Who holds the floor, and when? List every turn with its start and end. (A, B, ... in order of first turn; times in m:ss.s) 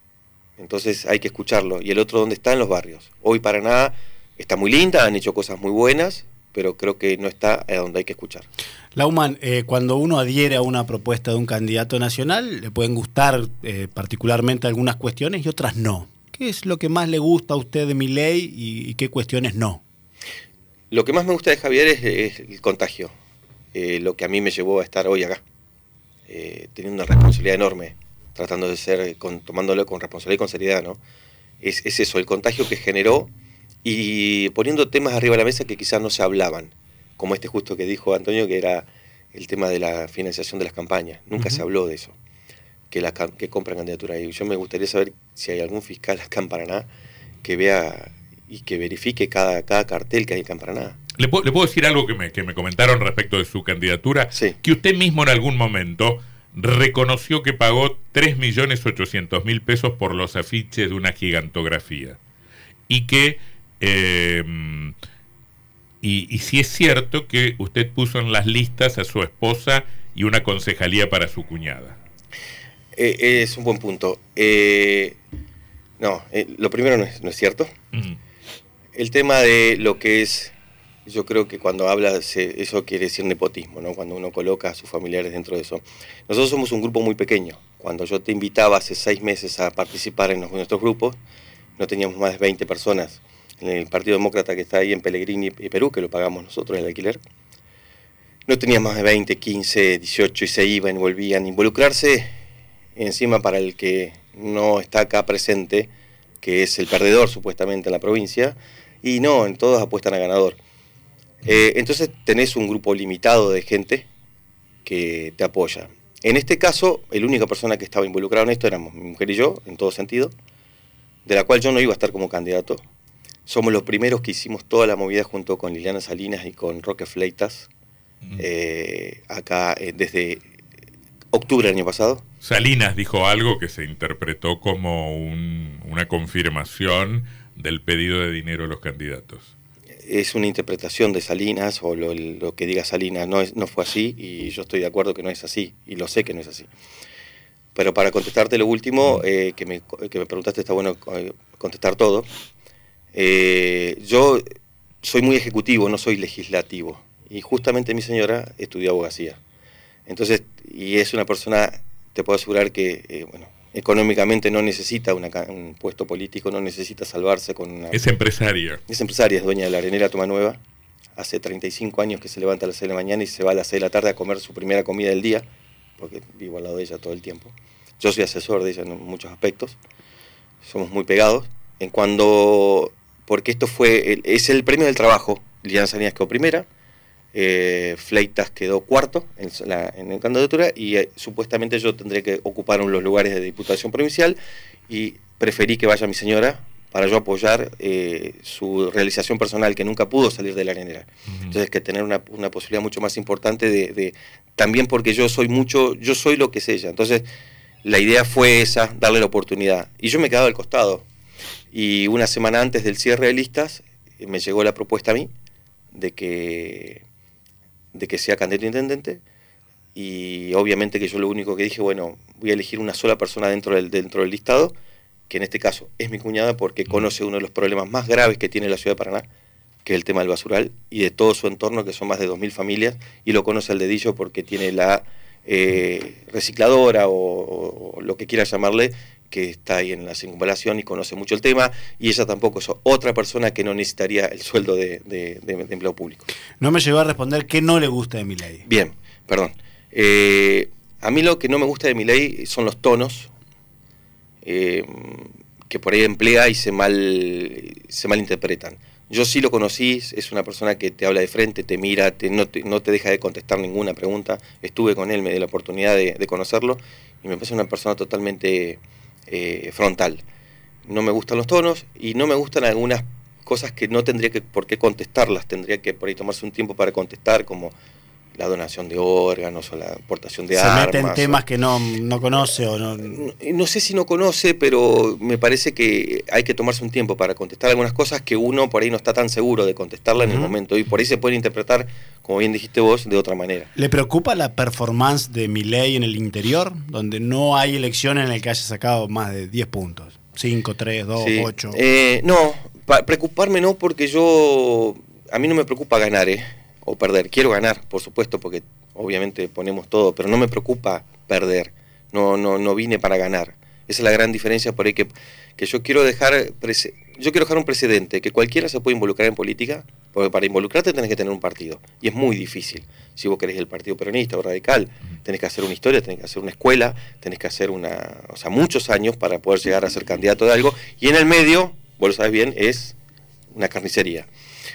0:00.6-0:08.5 A
0:09.0-0:19.8 B
0:20.9-0:23.1 A
0:23.7-0:25.4 A
0:26.3-0:31.0 A
0:31.6-0:33.3 A
0:33.8-0:42.1 A
0:41.4-0:41.6 C
0:42.9-0:46.9 A
0:47.4-0:51.0 A
0:51.2-1:02.2 C
1:02.9-1:04.9 C
1:06.0-1:12.0 C
1:13.0-1:15.2 A
1:16.0-1:17.7 A
1:17.9-1:18.2 C
1:19.0-1:20.5 A
1:21.1-1:31.2 A
1:31.8-1:37.2 A
1:38.5-1:42.2 A
1:43.0-1:45.9 A
1:46.4-1:50.6 A
1:51.4-1:54.1 A
1:54.8-2:00.3 A
2:01.2-2:02.8 A
2:03.5-2:07.7 A
2:08.4-2:10.4 A
2:11.3-2:12.2 A
2:12.4-2:19.5 C
2:20.1-2:26.7 A
2:27.8-2:32.3 A
2:33.1-2:34.4 A
2:35.0-2:39.4 A
2:40.1-2:48.0 A
2:47.9-2:48.8 C
2:48.9-2:50.6 A
2:51.2-2:55.4 A
2:56.0-2:59.8 A
3:00.6-3:06.6 A
3:07.3-3:14.4 A
3:14.9-3:27.2 A
3:21.3-3:21.6 C
3:27.8-3:31.0 A
3:31.7-3:35.3 A
3:35.9-3:37.0 A
3:37.9-3:39.2 A
3:40.0-3:44.7 A
3:45.3-3:49.2 A
3:49.8-4:06.3 A
4:06.6-4:08.6 B
4:08.6-4:13.3 A
4:14.4-4:30.2 A
4:30.9-4:37.7 A
4:38.4-4:41.4 A
4:40.5-4:43.2 B
4:43.0-4:53.7 A
4:50.2-4:50.5 B
4:53.8-5:01.8 B
5:01.2-5:33.0 A
5:33.5-5:34.3 A